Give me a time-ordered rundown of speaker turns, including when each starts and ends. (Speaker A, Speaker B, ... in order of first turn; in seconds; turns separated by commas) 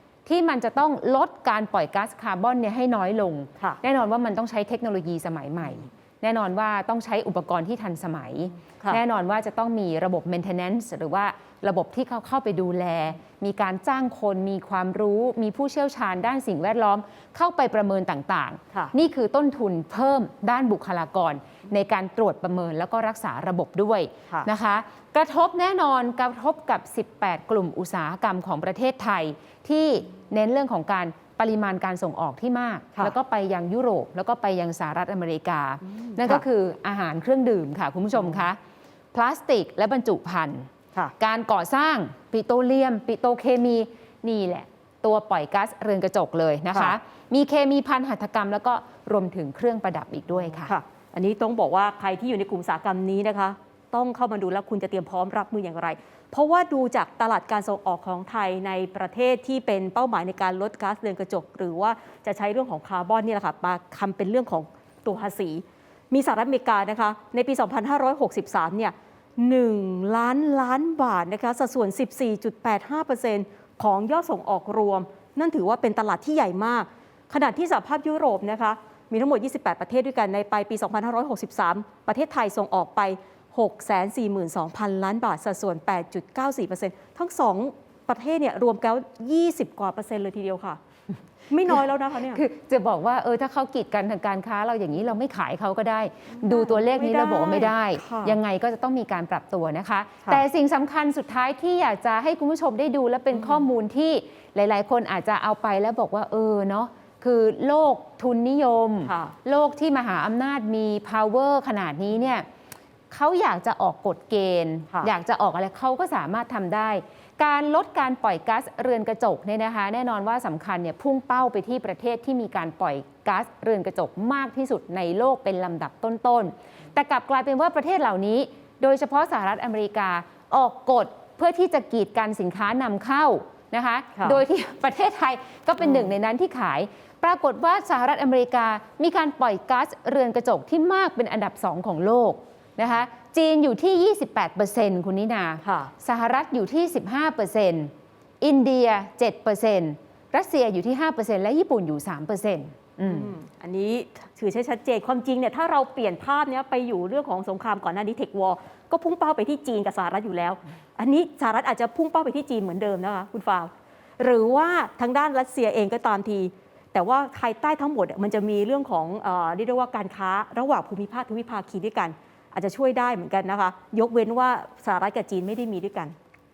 Speaker A: 0.2-38.6, Speaker B: 36.0-36.4, Speaker A: 39.1-50.7, Speaker B: 50.5-90.8, Speaker B: 91.5-92.4, Speaker A: 92.3-112.5, Speaker B: 96.3-98.4, Speaker B: 103.3-103.6, Speaker B: 109.0-109.3, Speaker A: 113.1-153.3, Speaker B: 134.1-134.4, Speaker B: 145.6-145.9, Speaker B: 153.0-176.1